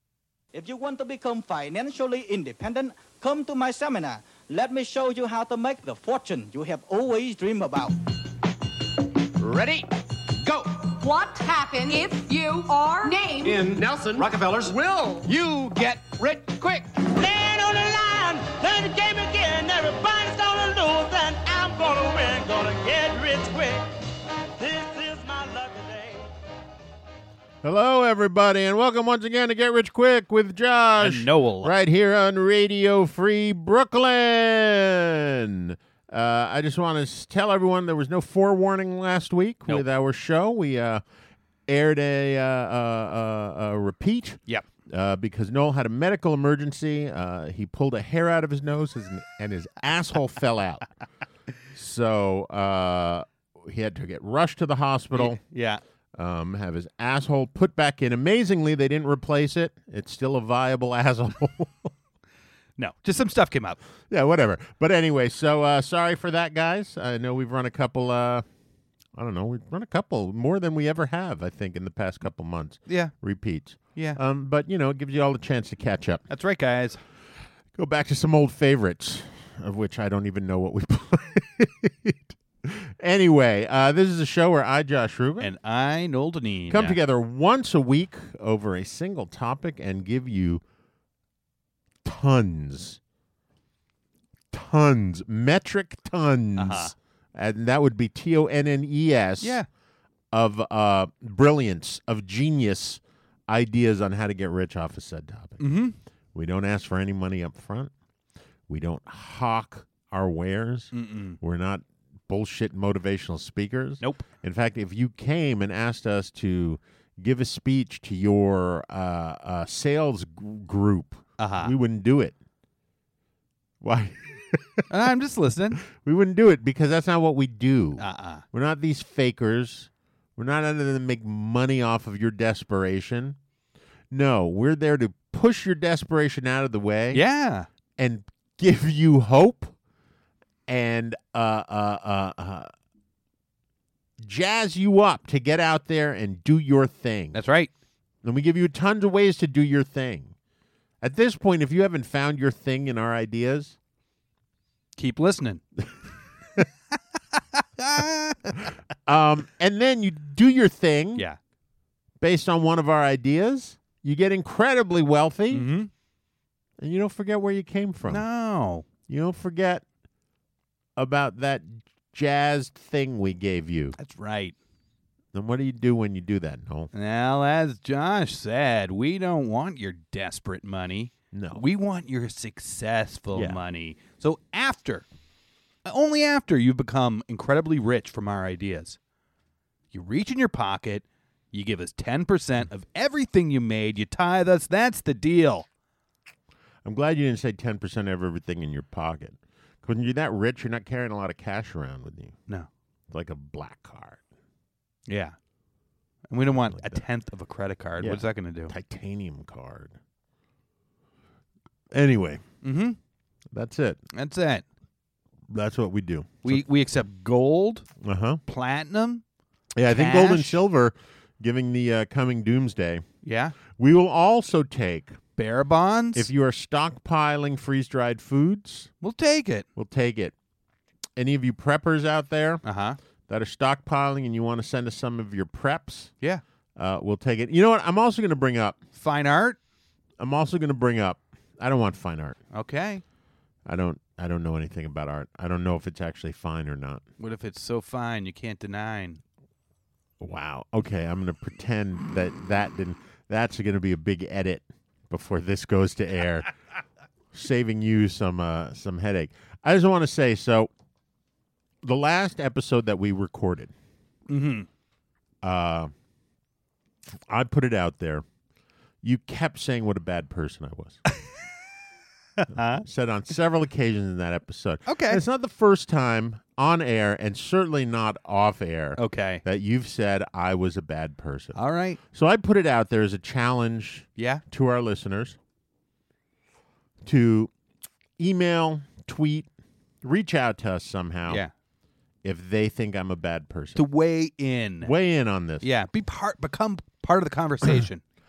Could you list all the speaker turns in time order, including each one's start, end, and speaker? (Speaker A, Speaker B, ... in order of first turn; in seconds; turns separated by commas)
Speaker A: 0.5-8.0, Speaker B: 9.4-9.8, Speaker C: 11.0-13.6, Speaker B: 13.4-15.4, Speaker B: 16.4-16.8, Speaker D: 17.0-23.9, Speaker D: 24.6-26.3, Speaker E: 27.6-41.0, Speaker F: 31.0-31.7, Speaker E: 41.7-50.9, Speaker E: 51.7-55.4, Speaker F: 55.1-55.8, Speaker E: 56.1-61.9, Speaker F: 62.8-63.8, Speaker E: 64.1-68.5, Speaker E: 69.2-76.2, Speaker F: 72.9-73.1, Speaker F: 76.3-77.0, Speaker E: 77.8-85.5, Speaker F: 85.4-87.0, Speaker E: 86.7-90.6, Speaker E: 92.0-93.0, Speaker E: 94.5-99.6, Speaker F: 96.6-97.0, Speaker F: 99.4-99.7, Speaker E: 100.3-105.6, Speaker F: 105.6-106.0, Speaker E: 106.3-107.9, Speaker E: 108.7-122.4, Speaker F: 110.9-111.4, Speaker F: 114.0-114.2, Speaker F: 121.4-121.7, Speaker E: 123.8-124.9, Speaker F: 124.9-125.8, Speaker E: 125.8-133.4, Speaker F: 128.0-128.4, Speaker E: 134.1-137.2, Speaker F: 137.1-137.7, Speaker E: 138.0-139.7, Speaker E: 140.7-142.7, Speaker E: 144.2-147.4, Speaker F: 147.3-147.7, Speaker E: 148.2-150.3, Speaker E: 151.0-153.8, Speaker F: 155.0-155.6, Speaker F: 157.3-158.6, Speaker E: 159.1-161.3, Speaker E: 162.2-165.7, Speaker F: 165.5-165.9, Speaker E: 166.8-168.2, Speaker F: 168.1-168.9, Speaker E: 169.1-169.8, Speaker E: 171.0-174.0, Speaker F: 174.0-174.6, Speaker E: 175.3-176.9, Speaker F: 176.9-185.1, Speaker E: 181.3-181.6, Speaker E: 183.3-183.6, Speaker F: 185.8-189.0, Speaker F: 189.9-195.7, Speaker E: 196.8-202.4, Speaker E: 203.1-204.2, Speaker F: 205.1-205.4, Speaker F: 206.3-208.7, Speaker E: 206.7-207.0, Speaker E: 208.0-210.0, Speaker E: 211.9-212.4, Speaker F: 212.6-213.0, Speaker E: 213.5-214.0, Speaker F: 214.1-214.7, Speaker E: 215.5-216.6, Speaker F: 216.4-217.9, Speaker E: 218.0-218.4, Speaker F: 218.5-219.2, Speaker E: 219.8-223.0, Speaker F: 219.9-220.6, Speaker F: 223.2-223.6, Speaker E: 223.7-225.2, Speaker F: 225.4-226.3, Speaker E: 226.2-228.9, Speaker F: 229.0-229.7, Speaker E: 229.8-230.3, Speaker E: 231.2-232.6, Speaker F: 232.6-233.0, Speaker E: 233.3-236.1, Speaker E: 236.8-238.8, Speaker F: 239.0-239.6, Speaker E: 240.2-242.4, Speaker F: 242.5-243.0, Speaker E: 243.7-247.1, Speaker F: 247.2-249.2, Speaker E: 250.2-256.5, Speaker E: 257.3-260.7, Speaker E: 261.8-263.7, Speaker F: 264.3-264.7, Speaker E: 265.4-265.9, Speaker E: 267.1-268.2, Speaker E: 269.0-271.0, Speaker F: 272.4-272.8, Speaker E: 272.6-285.4, Speaker F: 274.9-275.2, Speaker F: 279.0-279.4, Speaker F: 281.6-282.0, Speaker F: 284.2-284.4, Speaker E: 287.0-287.5, Speaker E: 288.2-289.5, Speaker E: 290.0-291.4, Speaker E: 292.2-293.9, Speaker F: 293.8-294.9, Speaker E: 294.8-295.7, Speaker F: 295.6-298.0